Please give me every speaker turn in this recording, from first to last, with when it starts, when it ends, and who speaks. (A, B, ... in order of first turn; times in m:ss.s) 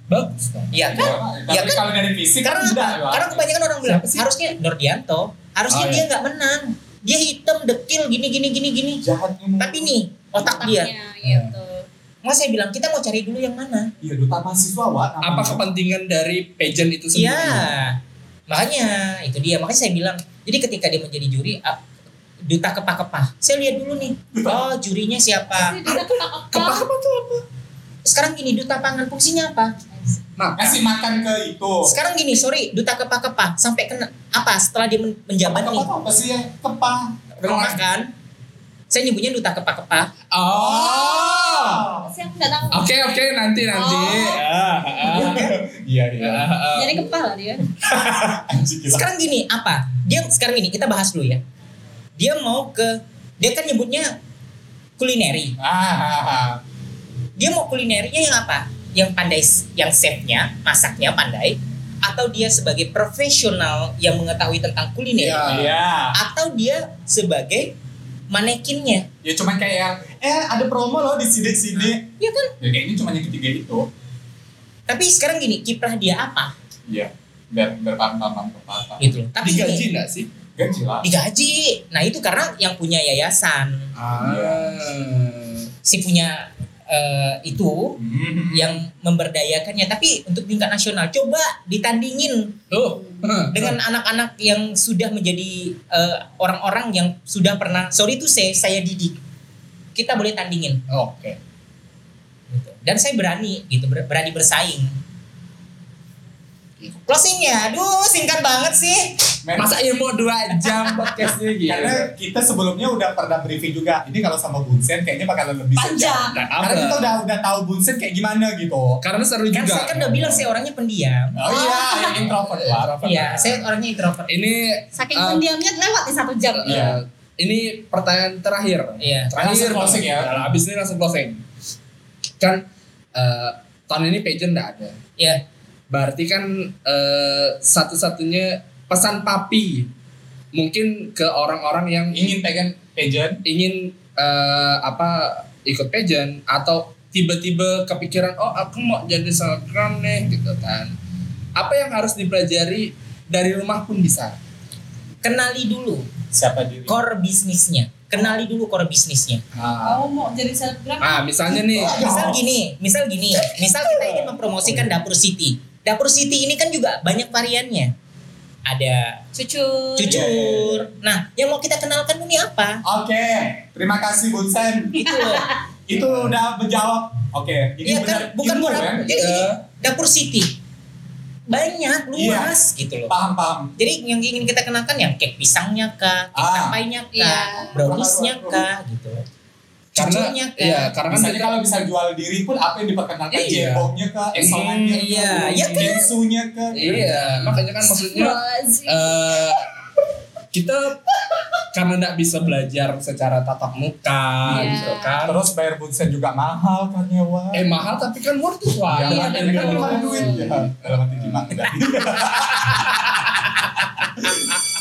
0:00.1-0:01.1 A
0:00.7-0:01.8 B
0:00.9-0:03.5 C
0:02.4-0:09.0 B
0:03.8-0:04.2 A
0:05.7-0:06.1 A
0:09.0-0:09.9 C
0:09.6-0:10.9 B
0:10.4-0:11.9 D
0:11.2-0:11.5 A
0:12.2-0:13.9 B
0:14.0-0:15.6 C
0:15.2-0:17.7 A
0:17.1-0:18.0 B
0:18.5-0:21.8 B
0:22.5-0:25.8 B
0:24.3-0:24.7 C
0:25.5-0:26.9 D
0:25.9-0:27.4 A
0:28.1-0:29.7 B
0:30.4-0:30.8 A
0:30.6-0:32.0 C
0:31.8-0:35.9 B
0:35.4-0:37.8 C
0:37.4-0:38.1 B
0:38.9-0:40.1 B
0:40.3-0:41.9 A
0:40.5-0:42.1 C
0:42.0-0:42.9 D
0:42.7-0:45.5 A
0:43.7-0:44.4 D
0:45.0-0:46.5 C
0:46.2-0:47.1 A
0:46.8-0:47.6 D
0:47.8-0:48.4 A
0:47.8-0:49.1 C
0:48.9-0:51.4 B
0:52.2-0:54.1 B
0:55.0-0:55.6 B
0:55.6-0:56.6 C
0:57.4-1:05.5 B
1:05.2-1:05.8 A
1:05.4-1:06.2 C
1:06.2-1:07.7 B
1:08.3-1:09.1 B
1:09.2-1:12.1 C
1:11.8-1:12.5 B
1:12.6-1:13.9 C
1:14.9-1:16.5 B
1:16.9-1:19.2 C
1:19.0-1:19.9 B
1:19.4-1:20.3 A
1:20.6-1:21.1 C
1:21.0-1:23.9 B
1:24.0-1:25.7 A
1:24.2-1:24.7 C
1:25.8-1:28.0 B
1:28.0-1:28.8 C
1:28.5-1:32.6 B
1:32.7-1:33.8 A
1:33.5-1:39.2 B
1:40.0-1:40.8 B
1:40.9-1:41.4 A
1:42.5-1:45.0 B
1:47.1-1:49.2 B
1:49.4-1:49.8 C
1:49.6-1:52.1 A
1:51.6-1:59.0 C
1:55.8-1:56.4 D
1:56.3-1:57.2 A
1:59.0-2:00.4 A
1:59.5-2:01.4 B
2:01.4-2:03.0 C
2:01.5-2:02.2 D
2:02.0-2:03.7 A
2:03.0-2:04.3 B
2:04.3-2:05.4 A
2:05.0-2:06.8 D
2:06.6-2:11.4 A
2:06.6-2:07.0 C
2:09.0-2:09.3 B
2:09.4-2:10.5 C
2:12.4-2:15.0 A
2:15.2-2:15.4 B
2:15.9-2:19.9 A
2:20.5-2:22.4 A
2:22.1-2:23.4 C
2:23.4-2:30.9 A
2:31.6-2:34.4 A
2:35.2-2:36.1 B
2:36.3-2:37.0 C
2:36.9-2:39.4 B
2:39.6-2:40.0 A
2:39.8-2:41.2 D
2:41.0-2:42.0 A
2:41.7-2:42.4 C
2:41.9-2:47.9 B
2:43.8-2:44.1 A
2:48.7-2:49.2 B
2:49.4-2:50.2 D
2:50.0-2:52.8 B
2:50.0-2:50.9 C
2:52.8-2:55.0 C
2:55.0-2:55.5 B
2:55.0-2:55.6 D
2:55.9-2:59.3 C
2:57.8-3:00.5 B
2:59.1-2:59.6 A
3:01.5-3:03.1 B
3:02.2-3:02.6 C
3:03.1-3:03.7 C
3:03.8-3:09.2 B
3:06.4-3:06.8 C
3:07.1-3:07.9 D
3:07.7-3:08.7 C
3:10.0-3:11.6 A
3:10.0-3:10.9 B
3:11.1-3:17.6 C
3:13.3-3:15.8 A
3:14.9-3:16.1 B
3:16.8-3:19.7 A
3:17.8-3:19.4 D
3:20.5-3:21.1 A
3:21.6-3:25.4 A
3:24.5-3:27.7 C
3:24.5-3:25.2 D
3:27.5-3:34.2 A
3:28.9-3:33.1 C
3:29.0-3:30.6 D
3:34.2-3:34.5 C